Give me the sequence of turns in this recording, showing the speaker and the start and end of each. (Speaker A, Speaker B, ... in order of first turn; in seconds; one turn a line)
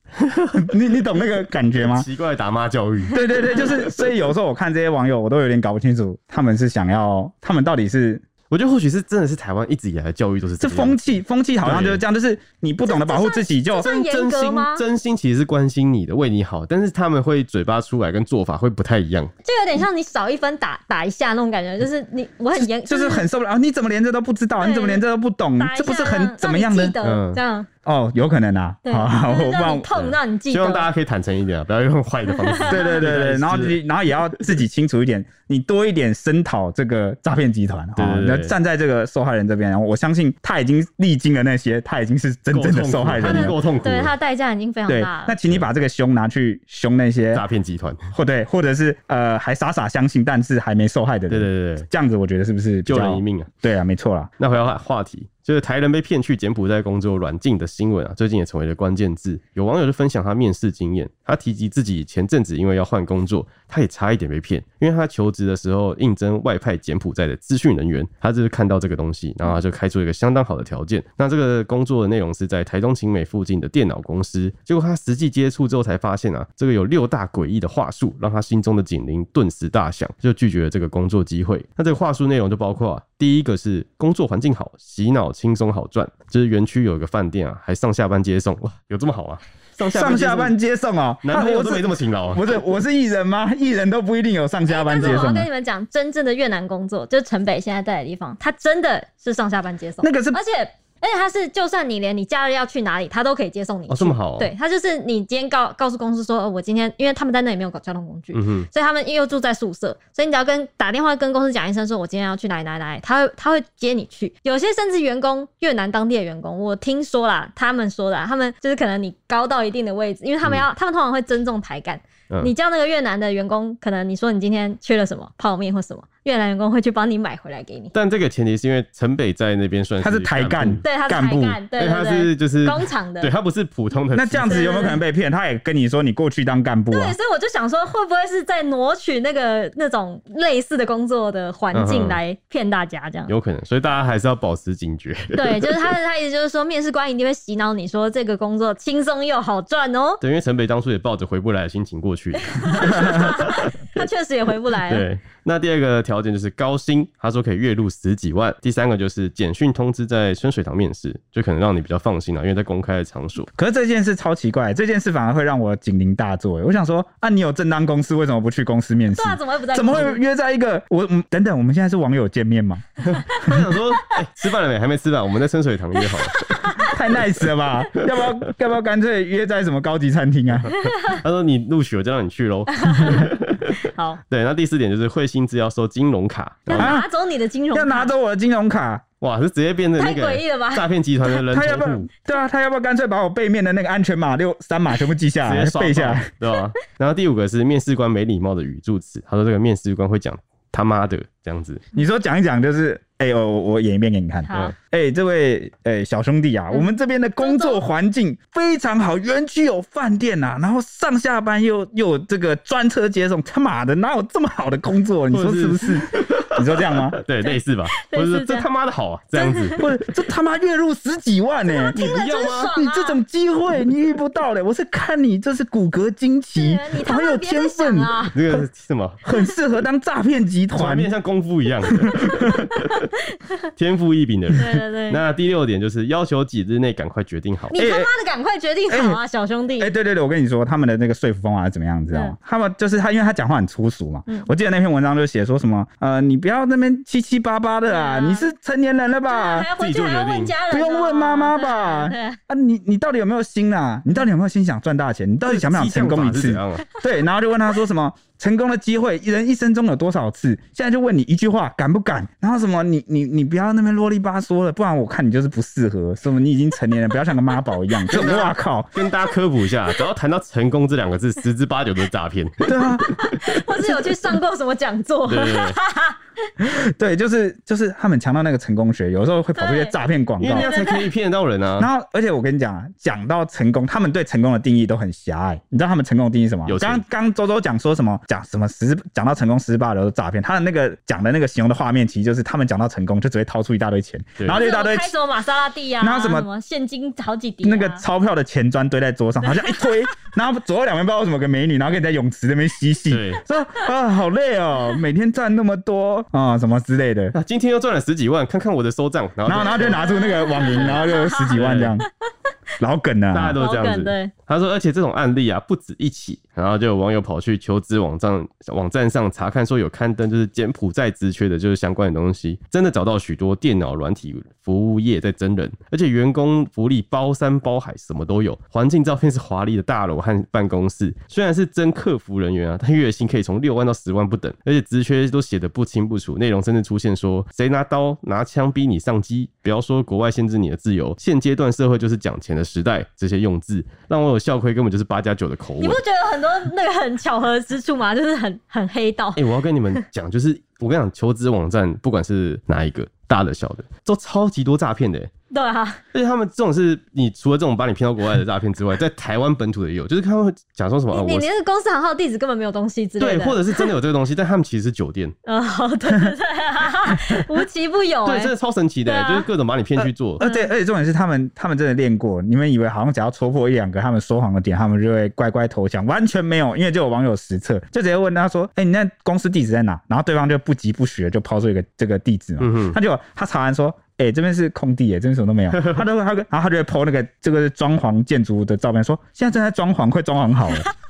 Speaker A: 0.2-0.7
Speaker B: 0.6-2.1
Speaker A: 1.8-4.1
Speaker B: 3.1-8.2
Speaker A: 8.5-12.0
Speaker B: 10.6-13.9
Speaker C: 12.9-14.8
Speaker A: 13.8-19.3
Speaker C: 19.4-23.3
Speaker B: 22.6-27.0
Speaker C: 24.6-25.0
Speaker C: 25.6-27.7
Speaker A: 27.0-27.4
Speaker B: 27.9-29.9
Speaker C: 28.9-30.9
Speaker A: 30.0-33.8
Speaker C: 32.4-32.9
Speaker B: 32.7-43.6
Speaker A: 38.0-38.5
Speaker A: 42.5-44.1
Speaker C: 43.2-45.4
Speaker B: 44.9-47.5
Speaker A: 47.3-48.1
Speaker B: 48.1-54.3
Speaker A: 51.3-51.9
Speaker A: 52.9-53.5
Speaker A: 54.4-90.6
Speaker B: 89.9-95.5
Speaker A: 91.2-92.5
Speaker C: 94.7-127.9
Speaker A: 95.0-95.3
Speaker B: 100.0-100.4
Speaker A: 103.9-104.5
Speaker A: 108.3-108.7
Speaker A: 127.9-130.8
Speaker B: 130.0-131.6
Speaker C: 130.8-133.3
Speaker A: 131.8-134.8
Speaker B: 134.1-137.2
Speaker C: 134.5-135.0
Speaker C: 136.9-143.3
Speaker A: 141.7-142.2
Speaker A: 143.3-145.9
Speaker C: 145.3-150.2
Speaker A: 150.2-154.0
Speaker C: 152.4-155.1
Speaker A: 154.9-163.5
Speaker B: 163.6-173.6
Speaker C: 169.1-170.2
Speaker C: 173.1-173.5
Speaker A: 173.1-176.9
Speaker C: 176.0-177.0
Speaker B: 176.8-180.7
Speaker A: 180.6-186.9
Speaker C: 180.7-181.2
Speaker C: 182.7-184.2
Speaker C: 186.7-188.1
Speaker B: 186.7-187.1
Speaker B: 187.7-189.0
Speaker A: 189.2-192.1
Speaker C: 190.0-190.9
Speaker B: 191.5-196.3
Speaker A: 195.4-201.8
Speaker B: 201.9-217.2
Speaker C: 204.4-204.8
Speaker C: 206.7-207.8
Speaker A: 215.3-219.9
Speaker C: 217.4-218.7
Speaker C: 219.4-219.8
Speaker B: 219.8-228.7
Speaker C: 221.7-223.2
Speaker A: 221.9-222.7
Speaker C: 226.6-228.4
Speaker A: 228.3-229.2
Speaker B: 229.2-231.1
Speaker A: 230.7-233.1
Speaker B: 232.1-232.6
Speaker A: 233.8-237.7
Speaker C: 234.6-235.2
Speaker C: 237.7-239.9
Speaker B: 237.8-238.1
Speaker B: 238.9-239.2
Speaker B: 239.8-249.7
Speaker C: 247.9-248.5
Speaker C: 249.3-252.4
Speaker A: 249.8-250.6
Speaker B: 250.7-268.9
Speaker A: 255.5-257.0
Speaker A: 268.1-273.3
Speaker B: 272.7-273.1
Speaker C: 272.9-276.2
Speaker A: 275.3-275.8
Speaker B: 276.6-280.7
Speaker C: 279.6-279.9
Speaker A: 280.4-281.9
Speaker C: 280.5-281.1
Speaker B: 281.8-295.1
Speaker A: 286.7-287.0
Speaker C: 294.5-298.0
Speaker B: 296.0-296.5
Speaker B: 297.6-307.4
Speaker C: 299.4-300.1
Speaker A: 303.1-303.4
Speaker A: 307.3-310.0
Speaker B: 309.4-312.1
Speaker C: 309.6-311.6
Speaker A: 310.7-312.0
Speaker B: 312.8-313.6
Speaker A: 313.3-346.0
Speaker C: 313.6-314.3
Speaker C: 345.8-349.4
Speaker A: 349.4-355.3
Speaker C: 355.5-356.0
Speaker A: 356.1-361.5
Speaker C: 361.1-363.9
Speaker A: 363.2-365.4
Speaker C: 365.5-368.5
Speaker A: 368.3-370.4
Speaker C: 369.1-369.5
Speaker B: 370.0-390.9
Speaker C: 370.4-370.7
Speaker A: 382.6-383.0
Speaker A: 385.7-386.0